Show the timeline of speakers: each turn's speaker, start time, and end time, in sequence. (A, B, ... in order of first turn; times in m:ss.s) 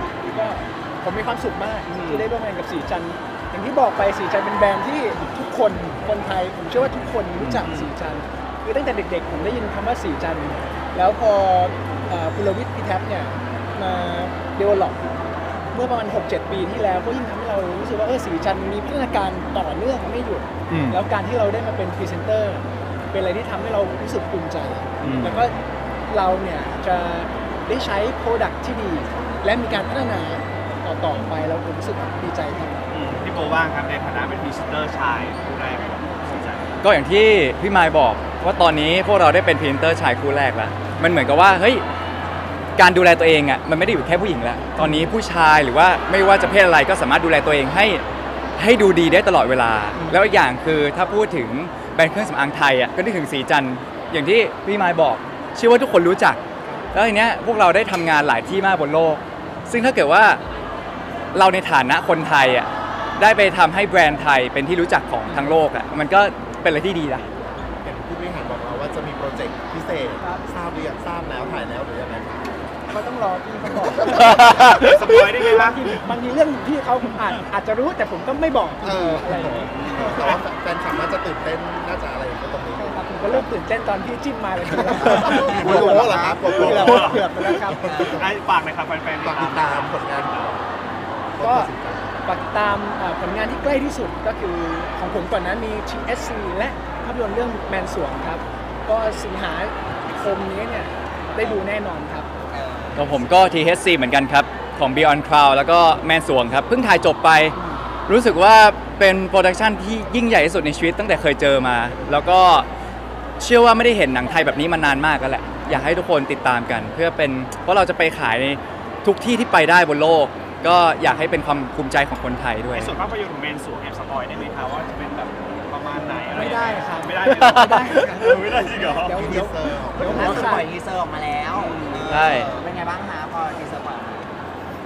0:00.2-0:15.1 A
0:01.9-0:02.3 B
0:07.6-0:07.9 B
0:15.7-0:25.6 A
0:20.7-0:21.0 C
0:25.0-0:25.5 C
0:26.1-0:32.8 A
0:32.9-0:36.8 B
0:36.8-0:41.8 C
0:42.8-0:48.0 C
0:44.8-0:45.0 A
0:48.6-0:56.4 C
0:56.9-1:00.4 C
1:01.3-1:07.2 C
1:07.8-1:12.5 D
1:12.9-1:19.8 A
1:14.5-1:15.9 B
1:18.8-1:23.5 D
1:19.7-1:20.4 B
1:22.8-1:28.1 A
1:24.7-1:28.3 D
1:25.1-1:27.3 B
1:25.5-1:26.4 E
1:27.9-1:28.2 E
1:28.2-1:30.5 B
1:29.2-1:32.2 D
1:31.4-1:31.7 A
1:32.2-1:42.3 A
1:42.5-1:43.0 E
1:43.0-1:47.6 C
1:48.1-1:52.7 C
1:53.4-2:02.9 C
2:02.7-2:09.3 B
2:06.3-2:10.7 A
2:07.4-2:07.8 C
2:09.2-2:10.7 D
2:10.1-2:14.3 E
2:11.5-2:12.2 B
2:12.1-2:12.5 C